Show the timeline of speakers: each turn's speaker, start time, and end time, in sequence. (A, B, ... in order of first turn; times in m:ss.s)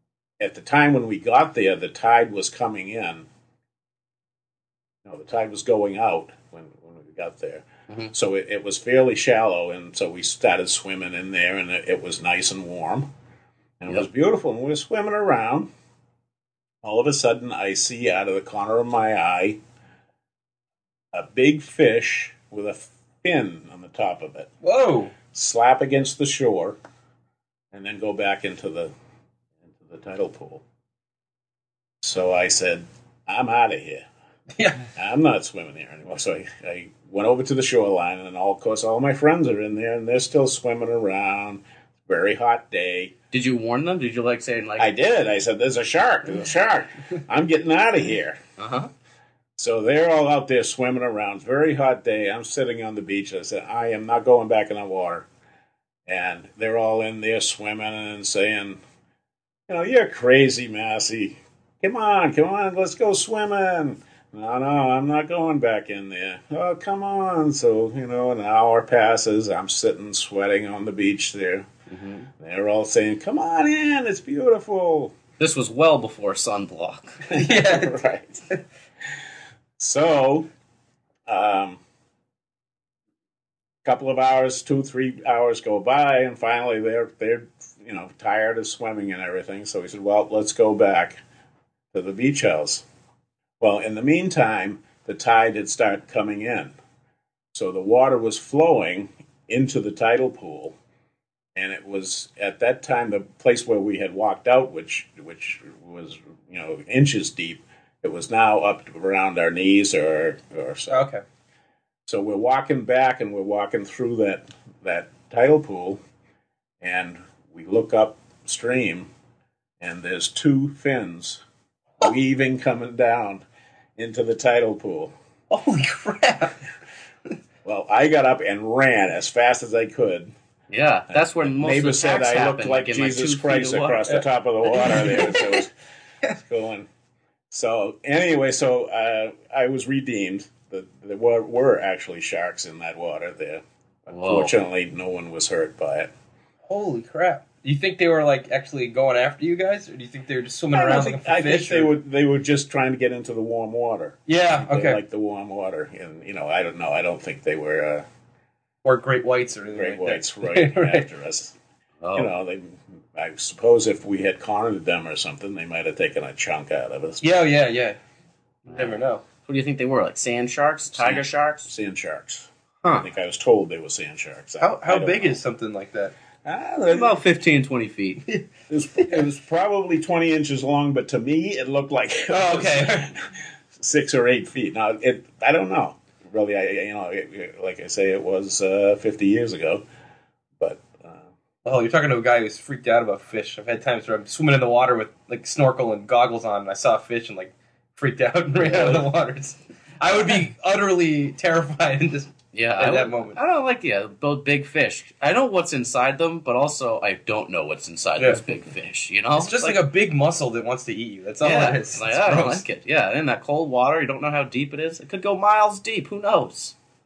0:00.4-0:03.3 A
0:05.0-0:13.1 A
0:13.8-0:15.7 A
0:16.8-0:19.6 A
0:21.1-0:24.5 A
0:24.6-0:25.2 B
0:25.3-0:26.8 A
0:27.7-0:28.9 A
0:29.8-0:30.6 A
0:32.0-0:34.0 A
0:34.6-0:34.9 B
0:35.0-0:43.1 A
0:43.3-0:44.9 C
0:44.8-0:48.4 A
0:48.6-0:48.9 C
0:49.6-0:55.3 A
0:56.1-0:58.8 A
0:59.7-1:11.7 A
1:11.9-1:12.3 C
1:12.4-1:15.1 A
1:15.4-1:17.2 C
1:17.3-1:18.4 A
1:17.3-1:18.0 B
1:19.8-1:20.5 A
1:21.3-1:21.8 A
1:23.8-1:31.2 A
1:31.9-1:32.8 A
1:33.6-1:36.8 A
1:37.5-1:40.8 A
1:41.6-1:51.0 A
1:50.9-1:51.2 B
1:52.1-1:56.0 A
1:56.8-1:59.1 A
1:59.8-2:01.4 A
2:02.0-2:03.4 A
2:04.0-2:05.1 A
2:05.5-2:06.6 B
2:07.6-2:10.3 A
2:10.7-2:14.1 C
2:11.1-2:15.7 A
2:14.1-2:15.6 B
2:16.4-2:16.9 A
2:17.5-2:26.1 A
2:24.1-2:24.5 C
2:26.7-2:32.0 B
2:30.7-2:38.0 A
2:34.3-2:35.0 B
2:38.8-2:41.1 B
2:39.8-2:41.5 A
2:42.0-2:42.3 C
2:42.2-2:47.3 A
2:47.2-2:48.0 B
2:48.7-2:49.2 B
2:48.7-2:51.7 C
2:51.0-2:55.4 A
2:54.6-2:56.2 B
2:56.4-2:57.2 A
2:56.9-2:58.3 C
2:58.7-3:09.8 A
3:02.3-3:03.1 B
3:10.6-3:11.2 A
3:11.6-3:23.4 B
3:18.6-3:19.1 C
3:22.5-3:29.8 C
3:29.4-3:32.6 B
3:31.4-3:36.8 C